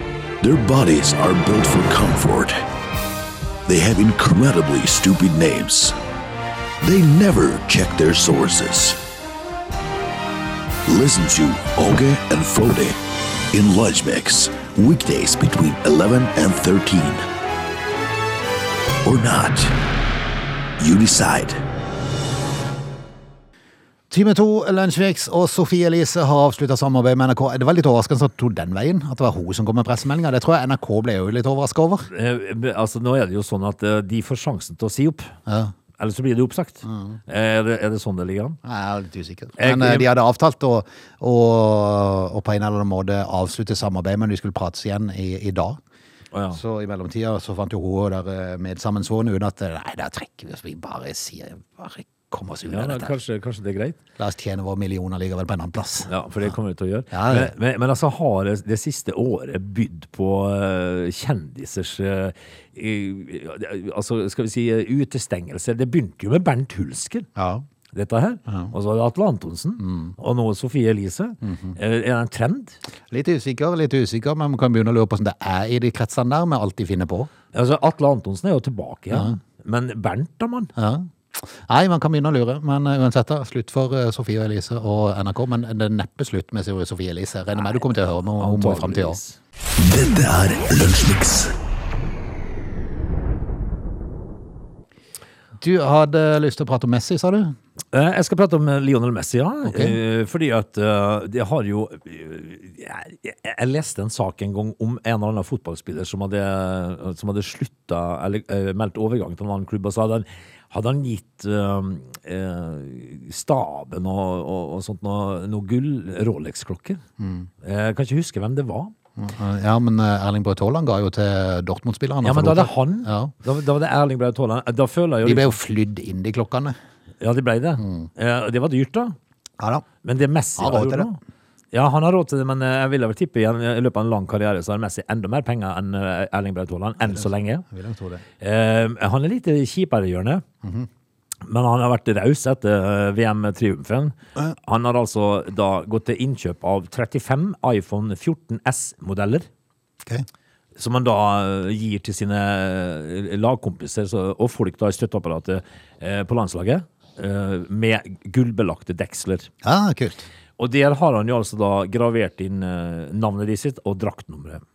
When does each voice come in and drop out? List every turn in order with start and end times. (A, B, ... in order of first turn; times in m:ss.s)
0:00.4-0:02.6 A
0:03.6-0:05.9 A
0:06.8-0:09.0 A
0:10.8-0:13.0 A
0:13.5-0:17.2 A
0:19.0-0:19.7 A
0:20.8-0:21.6 A
0:24.1-0:32.1 B
0:32.1-0:35.3 C
0:35.5-0:35.7 B
0:36.0-0:38.6 C
0:36.8-0:37.2 B
0:38.6-0:45.8 B
0:39.6-0:40.1 C
0:46.3-0:46.6 C
0:46.5-0:53.2 B
0:52.7-0:54.0 C
0:54.2-0:56.1 B
0:56.1-1:07.3 C
0:57.1-0:57.5 B
1:07.4-1:07.6 B
1:07.9-1:12.8 C
1:09.8-1:10.1 B
1:11.4-1:11.8 B
1:13.1-1:17.3 B
1:17.5-1:20.7 C
1:19.1-1:19.4 B
1:20.8-1:29.2 B
1:28.4-1:29.4 C
1:29.8-1:31.5 A
1:35.6-1:37.5 B
1:37.9-1:57.0 C
1:39.6-1:40.0 B
1:57.2-1:57.5 B
1:57.6-1:58.9 C
1:59.2-2:03.3 B
2:02.2-2:05.5 C
2:05.2-2:06.8 B
2:07.2-2:09.1 C
2:07.8-2:08.1 B
2:09.6-2:09.8 B
2:10.0-2:11.2 C
2:10.6-2:11.1 B
2:11.7-2:17.6 C
2:17.0-2:18.2 B
2:18.4-2:20.4 C
2:20.6-2:20.9 B
2:21.4-2:29.5 C
2:30.8-2:39.5 C
2:39.6-2:40.2 B
2:40.6-2:44.6 C